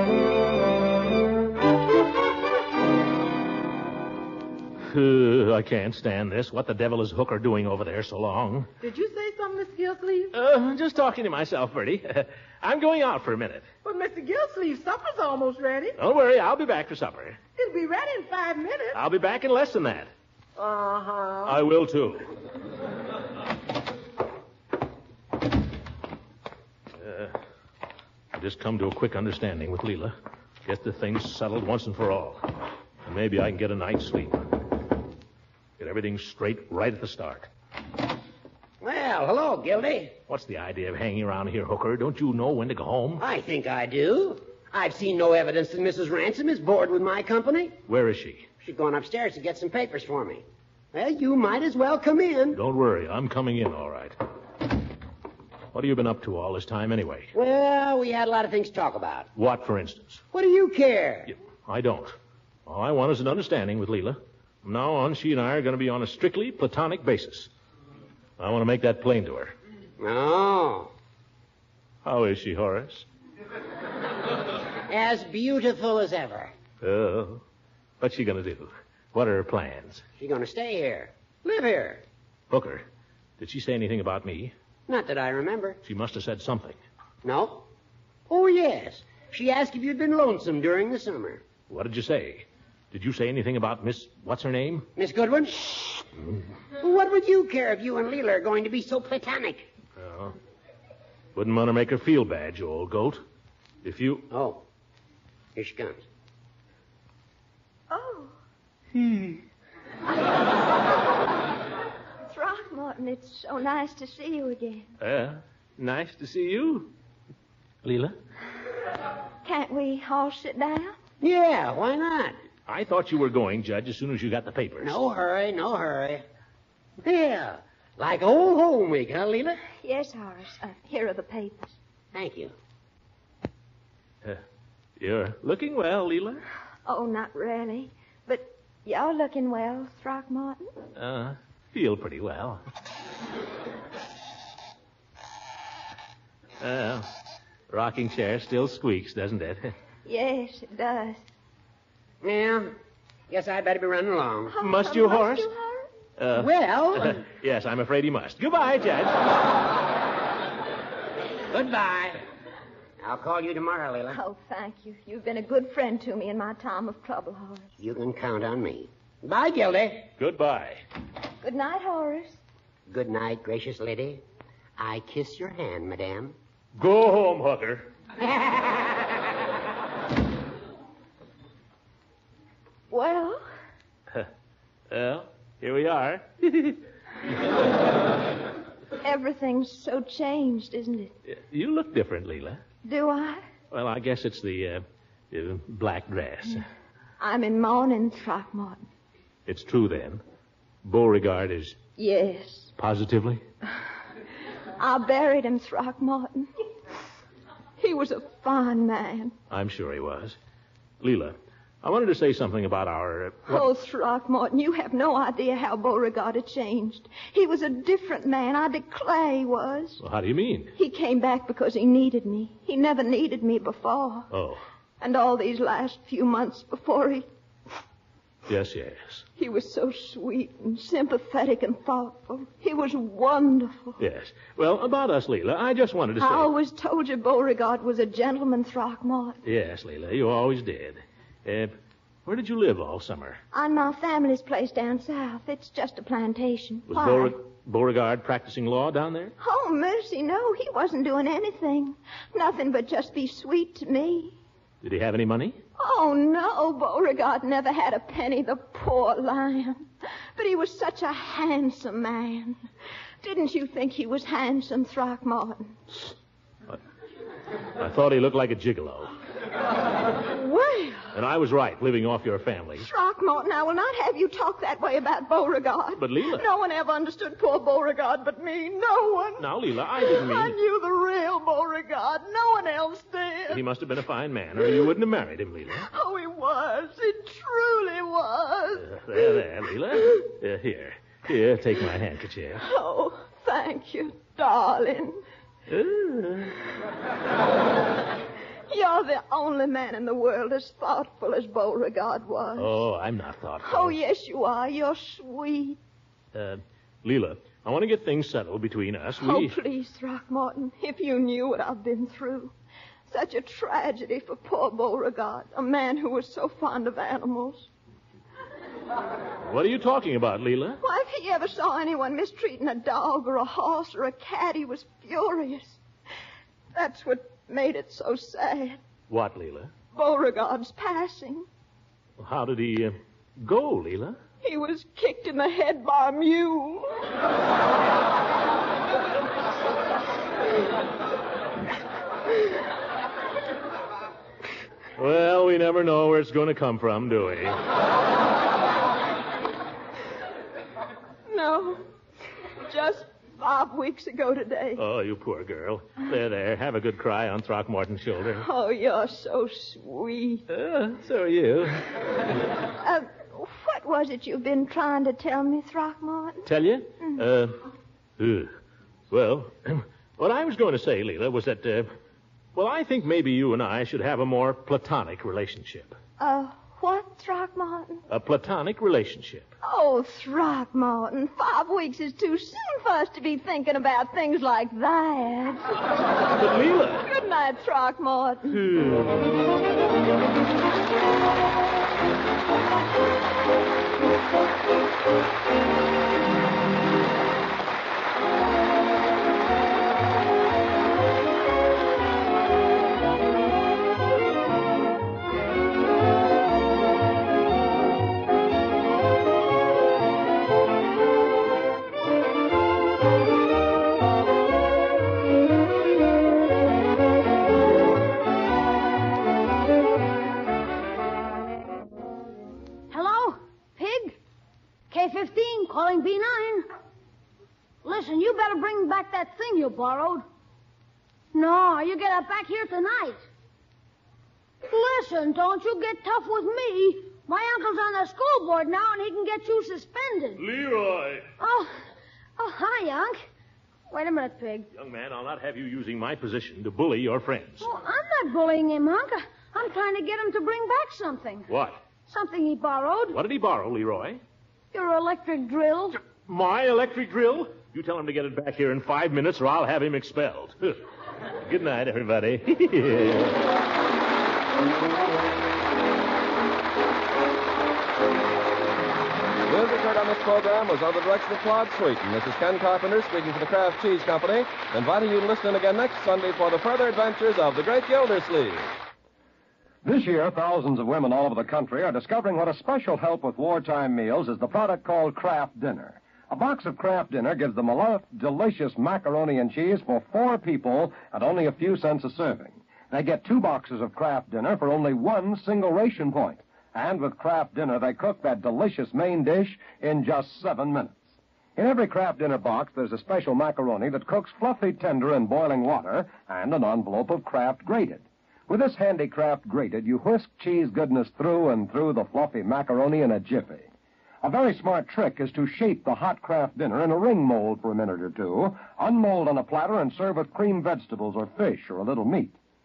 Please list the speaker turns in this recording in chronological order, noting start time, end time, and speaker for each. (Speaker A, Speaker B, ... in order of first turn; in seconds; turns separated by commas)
Speaker A: 4.8-8.7, Speaker B: 8.8-10.3, Speaker A: 10.3-13.7, Speaker B: 13.8-16.0, Speaker A: 16.0-17.4, Speaker B: 17.6-19.0, Speaker A: 18.9-20.1, Speaker B: 20.6-21.6, Speaker A: 21.5-22.3, Speaker A: 27.0-27.3, Speaker A: 28.3-30.1, Speaker A: 30.6-32.5, Speaker A: 33.0-34.6, Speaker A: 35.8-37.5, Speaker C: 38.8-40.1, Speaker A: 40.3-43.2, Speaker C: 43.2-47.8, Speaker A: 47.9-48.5, Speaker C: 48.6-52.6, Speaker A: 52.5-54.2, Speaker A: 55.7-57.3, Speaker C: 57.3-59.3, Speaker A: 59.4-60.2, Speaker C: 60.3-61.3, Speaker A: 61.3-67.5, Speaker A: 68.4-69.5, Speaker C: 70.0-70.9, Speaker A: 72.0-73.1, Speaker C: 74.9-76.5, Speaker A: 76.8-77.4, Speaker A: 78.0-80.0, Speaker C: 80.2-82.0, Speaker A: 82.5-82.8, Speaker A: 83.4-84.5, Speaker C: 84.9-85.8, Speaker A: 85.8-86.8, Speaker C: 87.2-87.6, Speaker C: 88.3-91.4, Speaker A: 91.7-94.9, Speaker C: 95.0-96.0, Speaker C: 96.8-99.7, Speaker A: 100.0-100.4, Speaker A: 101.3-103.2, Speaker A: 103.8-104.3, Speaker C: 104.3-104.6, Speaker C: 105.5-106.0, Speaker D: 107.9-108.3, Speaker A: 109.0-109.4, Speaker D: 112.3-114.9, Speaker A: 115.0-116.9, Speaker A: 117.8-118.2, Speaker D: 119.5-121.0, Speaker C: 121.2-122.4, Speaker A: 122.7-125.0, Speaker C: 124.8-126.2, Speaker C: 127.0-129.6, Speaker D: 129.8-131.8, Speaker C: 132.1-132.5, Speaker A: 135.0-136.4, Speaker D: 136.9-140.7, Speaker A: 141.0-142.6, Speaker A: 146.6-147.1, Speaker A: 147.7-149.7, Speaker D: 150.1-151.2, Speaker C: 152.2-152.7, Speaker C: 153.3-154.6, Speaker D: 154.5-155.9, Speaker A: 154.6-155.5, Speaker A: 156.2-159.3, Speaker C: 156.3-157.2, Speaker C: 161.5-162.2, Speaker C: 163.0-164.2, Speaker D: 164.1-167.6, Speaker C: 167.8-170.1, Speaker A: 170.2-170.8, Speaker D: 171.4-172.4, Speaker C: 172.9-174.2, Speaker C: 174.8-176.3, Speaker A: 176.8-177.9, Speaker D: 182.9-183.4, Speaker A: 184.9-186.8, Speaker D: 189.0-191.2, Speaker A: 191.3-192.6, Speaker D: 192.8-193.5, Speaker A: 193.7-196.7, Speaker D: 197.2-198.8, Speaker A: 199.5-200.2, Speaker A: 200.8-201.8, Speaker D: 202.0-202.7, Speaker A: 202.8-203.4, Speaker D: 204.8-206.5, Speaker D: 207.8-209.3, Speaker A: 209.5-210.4, Speaker A: 211.0-213.7, Speaker D: 213.5-220.0, Speaker A: 220.0-220.7, Speaker D: 220.8-224.3, Speaker A: 224.3-224.6, Speaker D: 225.0-227.3, Speaker A: 228.5-229.2, Speaker D: 229.4-234.0, Speaker A: 234.0-236.5, Speaker D: 236.2-239.4, Speaker A: 239.4-241.7, Speaker A: 242.2-243.4, Speaker D: 243.5-247.3, Speaker A: 246.9-249.3, Speaker D: 249.4-254.4, Speaker A: 254.8-255.6, Speaker D: 255.8-262.6, Speaker D: 263.2-266.1, Speaker A: 267.8-269.1, Speaker D: 270.3-271.1, Speaker A: 271.1-272.9, Speaker D: 272.8-283.6, Speaker A: 276.0-276.4, Speaker A: 279.4-280.6, Speaker A: 283.5-285.9, Speaker D: 285.8-289.0, Speaker A: 288.8-292.7, Speaker D: 292.6-295.2, Speaker A: 295.7-296.6, Speaker D: 298.7-302.8, Speaker A: 302.6-304.0, Speaker D: 303.6-305.8, Speaker A: 306.3-309.6, Speaker D: 309.2-312.5, Speaker D: 313.1-317.7, Speaker A: 319.4-320.8, Speaker D: 320.8-325.8, Speaker D: 326.7-328.8, Speaker A: 329.1-329.7, Speaker D: 329.9-331.5, Speaker A: 332.2-334.2, Speaker D: 334.4-336.9, Speaker A: 345.0-347.6, Speaker D: 351.3-351.8, Speaker D: 352.6-354.8, Speaker A: 354.8-358.5, Speaker D: 358.4-360.4, Speaker A: 360.5-361.9, Speaker D: 362.8-366.5, Speaker A: 366.4-367.6, Speaker A: 368.2-368.5, Speaker A: 369.1-371.9, Speaker A: 372.6-376.0, Speaker D: 376.2-378.0, Speaker A: 378.1-379.5, Speaker D: 379.6-385.8, Speaker A: 386.4-387.1, Speaker D: 387.1-388.6, Speaker A: 388.5-389.3, Speaker E: 422.9-424.2, Speaker E: 424.9-426.7, Speaker E: 427.8-430.2, Speaker E: 431.3-433.2, Speaker E: 434.7-440.4, Speaker A: 440.4-441.3, Speaker E: 441.4-441.7, Speaker E: 442.4-443.3, Speaker E: 443.9-444.7, Speaker A: 444.7-447.7, Speaker E: 447.6-451.5, Speaker A: 451.5-451.8, Speaker E: 452.1-453.2, Speaker A: 453.1-454.2, Speaker E: 454.7-456.0, Speaker A: 456.2-463.5, Speaker F: 469.5-478.7, Speaker G: 479.8-501.0, Speaker G: 501.6-513.7, Speaker G: 514.2-522.4